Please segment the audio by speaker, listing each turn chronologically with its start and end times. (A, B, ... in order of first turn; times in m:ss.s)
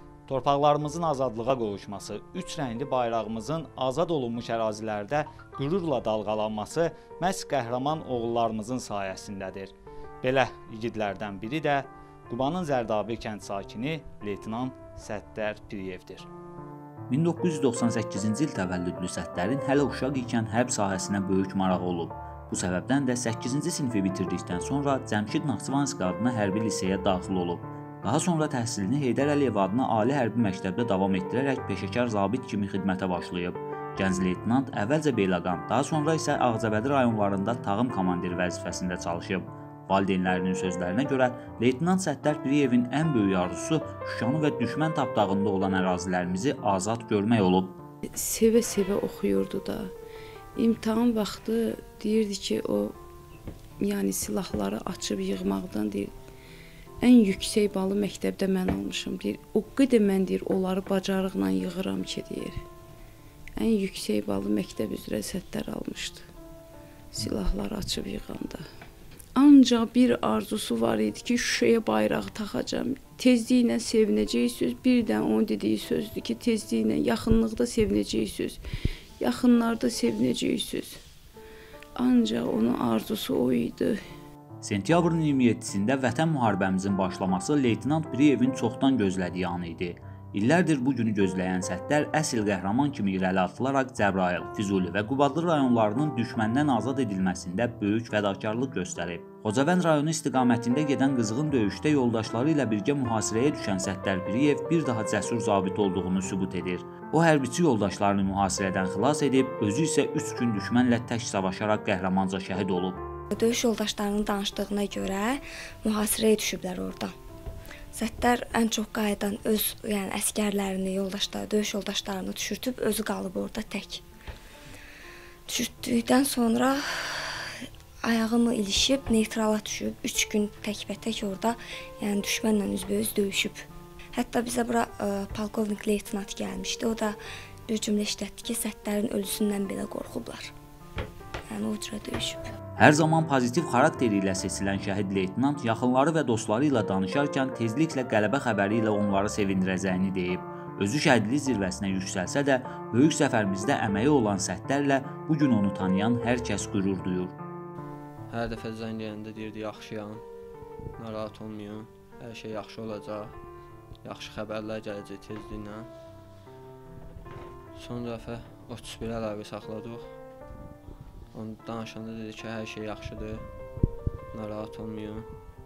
0:00.3-0:16.3 A
0:17.1-0:47.8 B
0:48.1-0:49.9 C
0:50.6-0:53.0 C
0:53.8-0:56.1 C
0:57.0-1:02.6 C
1:03.6-1:06.2 C
1:07.1-1:08.6 C
1:09.4-1:18.6 C
1:19.2-1:21.0 C
1:22.0-1:24.0 C
1:24.6-1:53.0 B
1:53.3-1:57.1 D
1:57.9-2:04.0 D
2:05.5-2:17.2 D
2:17.7-2:20.5 D
2:21.5-2:22.4 D
2:22.8-2:37.4 B
2:38.3-2:40.2 E
2:41.0-2:43.3 E
2:44.0-2:45.9 E
2:47.7-2:50.1 E
2:51.3-2:53.5 E
2:54.3-2:55.3 E